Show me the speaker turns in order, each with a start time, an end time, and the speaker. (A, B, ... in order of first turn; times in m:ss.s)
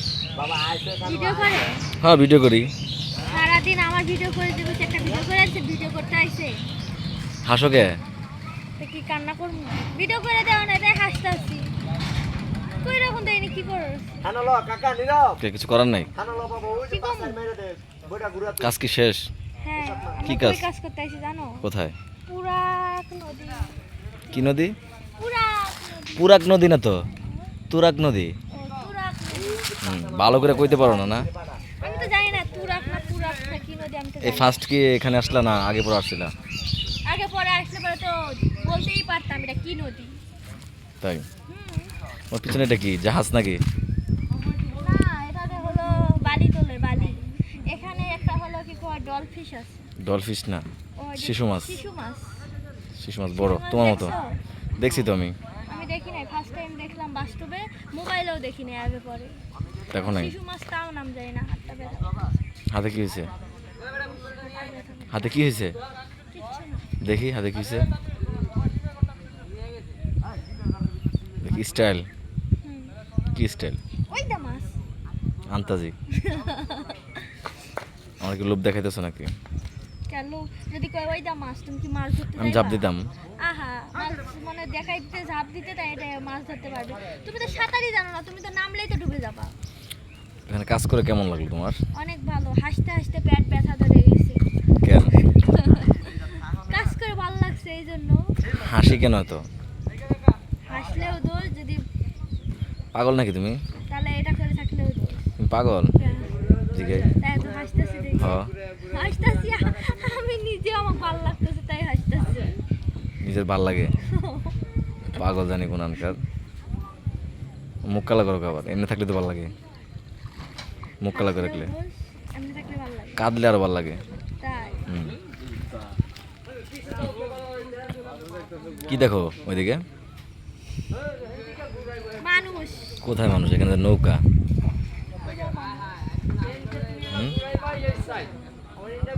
0:00.4-0:01.6 A
0:01.0-0:01.9 B
0:02.0-0:02.7 C
0:03.2-0:06.5 B
0:07.5-0:07.9 C
0:08.8-0:11.7 B
0:12.7-0:14.2 B
0:14.2-0:15.4 A
0:15.4-0:16.1 C
0:16.2-0:18.7 A
0:16.8-0:17.4 B
0:18.6-0:19.3 C
0:19.6-0:21.7 B
0:20.0-0:20.2 A
0:20.2-0:20.7 C
0:21.6-0:22.0 C
0:22.3-0:23.8 B
0:24.3-0:24.7 C
0:25.2-0:26.4 B
0:26.2-0:27.0 C
0:27.7-0:28.3 C
0:28.5-0:29.7 B
0:29.8-0:31.3 C
0:29.8-0:31.5 A
0:30.8-0:31.1 B
0:31.8-0:34.6 B
0:34.2-0:36.3 C
0:37.1-0:40.2 B
0:41.0-0:41.3 C
0:41.5-0:41.9 B
0:42.3-0:43.6 C
0:44.7-0:49.9 B
0:50.0-0:50.7 C
0:51.0-0:52.4 B
0:51.2-0:51.8 C
0:53.0-0:54.2 C
0:53.4-0:54.4 B
0:54.8-0:55.4 C
0:55.7-0:59.4 B
0:59.9-1:00.4 C
0:59.9-1:02.3 B
1:02.7-1:03.3 C
1:04.2-1:05.4 B
1:05.1-1:05.8 C
1:06.3-1:06.9 B
1:07.0-1:07.9 C
1:11.4-1:12.1 C
1:12.6-1:13.0 B
1:13.3-1:13.8 C
1:14.1-1:14.8 B
1:15.5-1:16.0 C
1:16.1-1:17.3 B
1:18.2-1:19.3 C
1:20.1-1:22.9 B
1:22.4-1:23.1 C
1:23.4-1:29.6 B
1:30.5-1:31.8 C
1:31.9-1:34.4 B
1:34.8-1:35.2 C
1:35.2-1:38.3 B
1:38.5-1:39.4 C
1:40.7-1:41.8 B
1:43.0-1:43.6 C
1:43.9-1:45.3 B
1:45.4-1:45.9 C
1:46.0-1:46.3 B
1:46.7-1:47.1 C
1:47.2-1:52.5 B
1:48.2-1:48.5 C
1:53.2-1:54.0 C
1:54.0-1:54.6 B
1:55.1-1:56.2 C
1:57.9-1:59.5 C
2:01.0-2:01.7 C
2:01.1-2:03.3 B
2:03.2-2:04.0 C
2:04.4-2:04.8 B
2:04.9-2:05.2 C
2:08.9-2:09.8 C
2:12.2-2:13.0 B
2:13.0-2:14.2 C
2:15.2-2:15.9 B
2:17.1-2:17.4 C
2:17.8-2:18.3 B